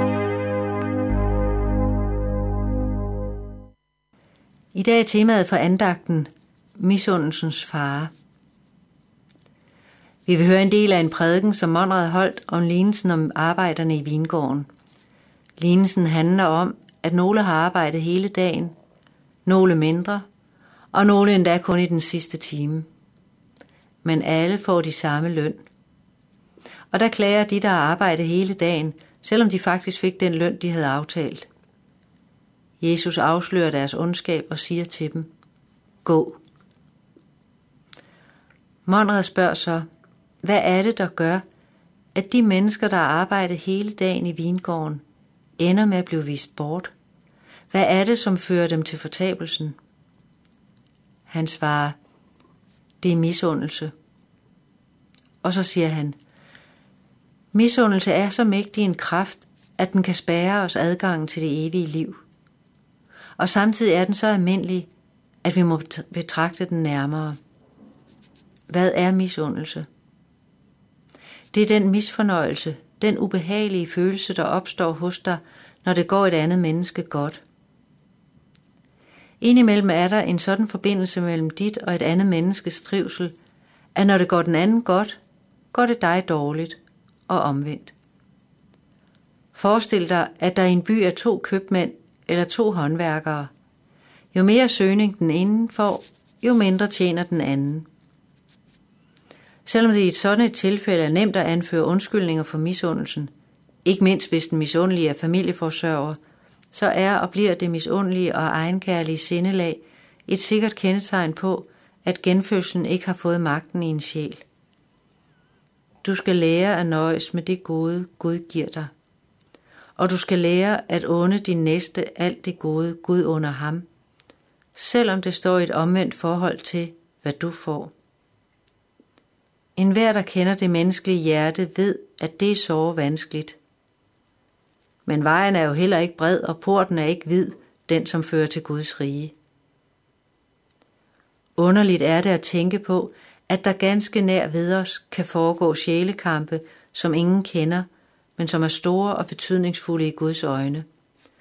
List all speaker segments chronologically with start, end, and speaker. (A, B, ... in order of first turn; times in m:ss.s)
0:04.7-0:08.1 A
0:10.2-0:14.7 A
0:15.6-0:18.7 A
0:19.4-0:20.2 A
0:20.9-0:22.9 A
0:24.0-0:25.6 A
0:26.9-0:31.5 A
0:32.8-0:35.3 A
0:36.0-0:36.4 A
0:38.8-0:39.8 A
0:40.4-0:41.4 A
0:42.1-0:45.0 A
0:45.6-0:46.9 A
0:47.7-0:49.8 A
0:51.3-0:52.0 A
0:53.0-0:53.9 A
0:55.4-0:56.2 A
0:57.5-1:02.2 A
1:03.4-1:04.9 A
1:05.4-1:07.4 A
1:08.7-1:09.9 A
1:11.5-1:17.4 A
1:19.4-1:23.3 A
1:23.9-1:25.2 A
1:25.7-1:27.9 A
1:29.5-1:33.5 A
1:34.3-1:37.9 A
1:39.6-1:43.3 A
1:43.8-1:46.2 A
1:46.7-1:54.4 A
1:56.0-1:58.9 A
2:00.0-2:03.8 A
2:04.7-2:07.9 A
2:09.8-2:13.6 A
2:15.0-2:19.3 A
2:21.6-2:27.8 A
2:28.4-2:30.8 A